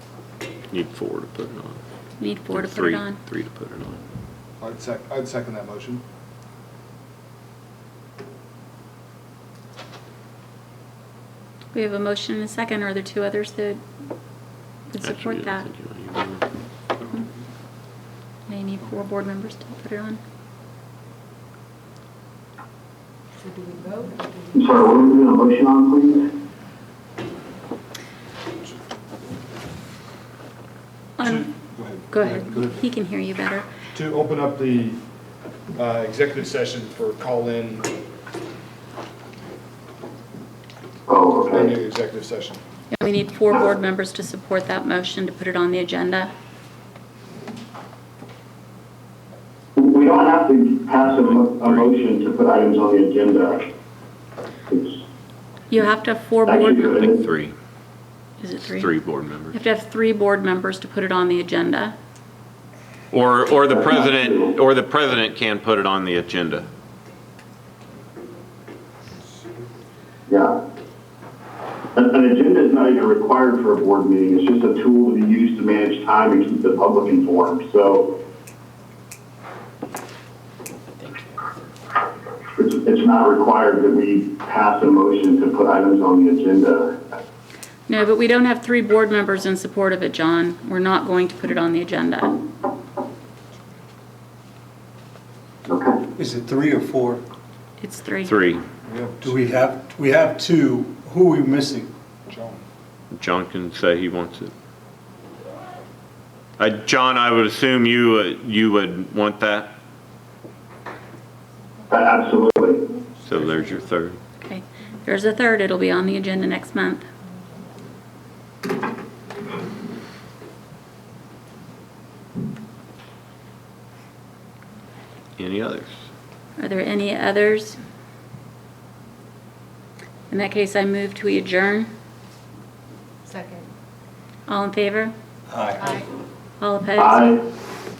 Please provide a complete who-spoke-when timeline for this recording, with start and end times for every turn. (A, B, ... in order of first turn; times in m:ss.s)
0:00.7-0:01.8 A
0:02.2-0:03.2 B
0:02.5-0:04.0 A
0:04.6-0:06.0 C
0:11.7-0:13.8 B
0:14.9-0:15.7 B
0:15.0-0:16.4 A
0:18.5-0:20.2 B
0:23.4-0:24.8 D
0:24.5-0:26.2 E
0:31.2-0:31.6 B
0:31.3-0:32.8 C
0:32.1-0:33.6 B
0:33.9-0:35.0 C
0:35.7-0:37.9 C
0:41.1-0:41.8 E
0:41.5-0:42.6 C
0:42.9-0:46.3 B
0:49.8-0:53.6 E
0:55.7-0:57.1 B
0:56.4-0:57.2 E
0:57.0-0:57.5 A
0:58.4-0:58.9 B
0:58.6-0:59.6 A
0:59.5-1:01.9 B
1:03.1-1:06.7 A
1:03.7-1:04.5 E
1:10.3-1:10.5 E
1:11.9-1:18.1 E
1:22.6-1:27.0 E
1:27.9-1:32.4 B
1:35.7-1:36.0 E
1:36.2-1:37.2 F
1:37.8-1:38.4 B
1:38.2-1:38.6 A
1:38.8-1:39.4 C
1:39.2-1:41.9 F
1:42.3-1:42.6 C
1:43.1-1:44.5 A
1:46.6-1:49.7 A
1:51.9-1:52.8 E
1:53.2-1:54.2 A
1:54.4-1:57.1 B
2:05.4-2:05.9 A
2:06.6-2:07.8 B
2:10.3-2:11.9 B
2:13.2-2:13.7 D
2:14.5-2:15.1 B
2:15.5-2:16.0 F
2:15.8-2:16.0 D
2:16.6-2:17.4 B
2:17.0-2:17.4 E